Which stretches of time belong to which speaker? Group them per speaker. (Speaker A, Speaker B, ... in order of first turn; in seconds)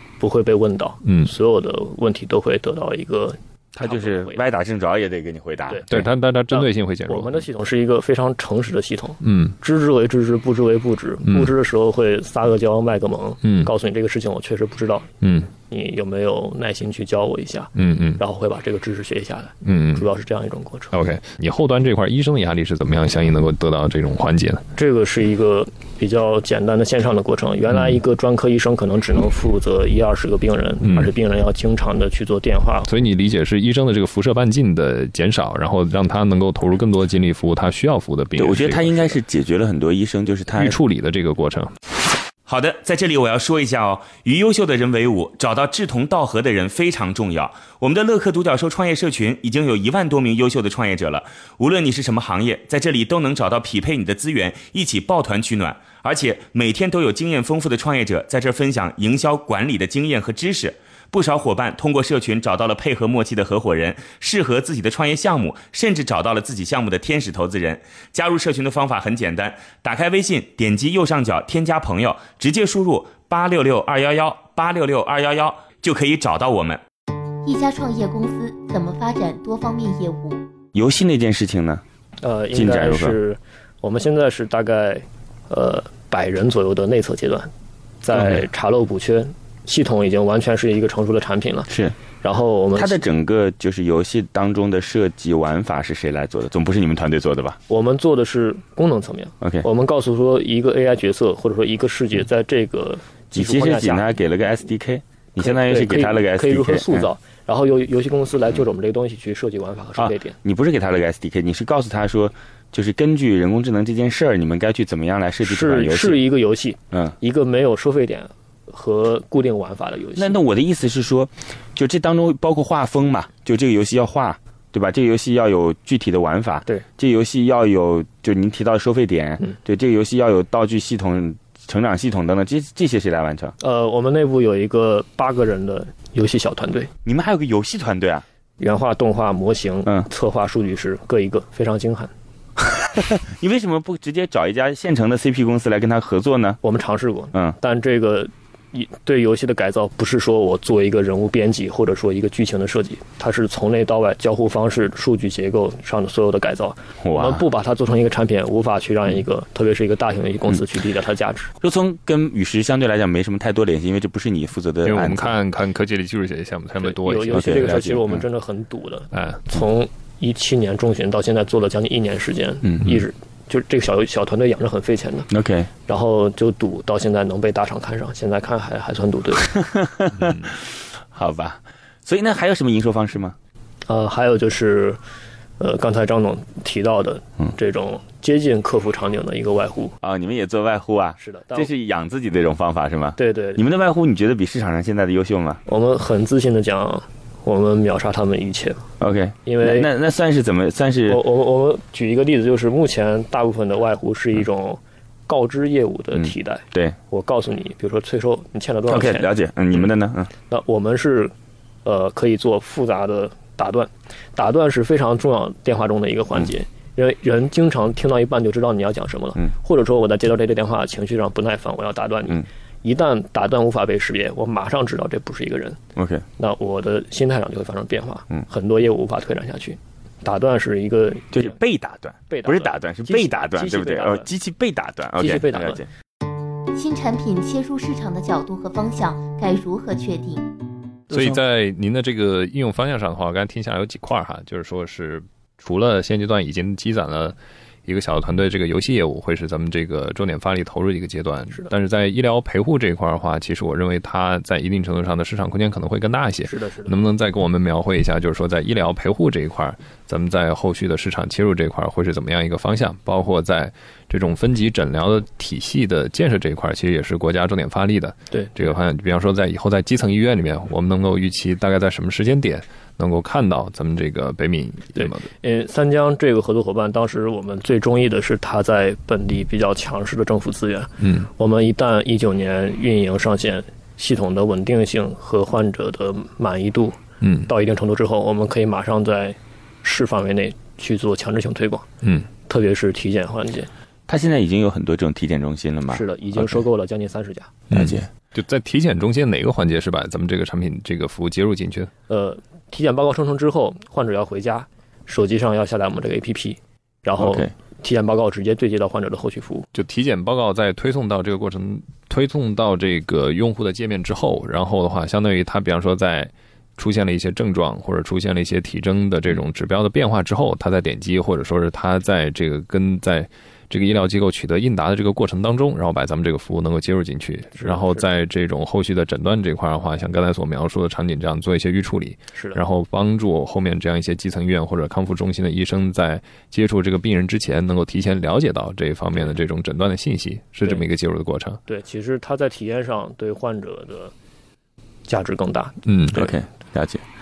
Speaker A: 0.2-4.4, 6.5-15.1, 15.7-20.9, 24.8-32.9, 82.2-87.5, 88.0-91.7, 92.2-93.0, 97.7-104.1, 105.4-110.3, 115.4-120.4, 133.6-136.9, 138.6-142.1, 146.6-161.5, 166.8-175.3, 175.9-179.5, 183.9-185.0, 185.6-189.9, 191.2-191.7, 193.2-193.6, 195.7-198.8, 199.4-199.9, 201.1-209.3, 210.5-211.3, 211.8-225.8, 226.4-231.6, 232.3-234.3, 235.2-235.8, 256.4-256.9, 274.9-291.9, 292.5-293.7, 295.9-297.5, 302.1-309.7, 327.6-328.1, 341.7-344.1, 345.1-345.8
Speaker B: 3.7-6.1, 38.4-40.8, 80.7-81.8, 82.5-83.2, 91.7-92.0, 92.8-97.6, 103.3-107.1, 110.0-116.2, 120.2-133.6, 137.1-138.2, 142.8-146.6, 157.0-157.4, 161.6-165.3, 167.3-168.2, 172.6-173.0, 175.3-175.7, 179.4-183.4, 190.0-195.6, 199.0-201.2, 206.2-207.0, 208.9-210.3, 226.0-226.2, 231.3-235.9, 294.1-296.5, 297.7-298.1, 307.2-307.5, 346.1-347.0
Speaker C: 5.9-7.4, 9.2-9.6, 13.4-13.7, 15.2-15.5, 17.8-18.2, 19.6-20.1, 20.9-24.6, 30.8-31.1, 32.9-39.2, 40.6-41.7, 164.8-167.8, 169.1-169.4, 241.1-275.3, 281.0-281.3, 287.2-287.5, 297.7-301.9, 309.7-341.6, 345.9-346.2
Speaker D: 42.5-76.8
Speaker E: 77.4-80.4, 236.7-240.5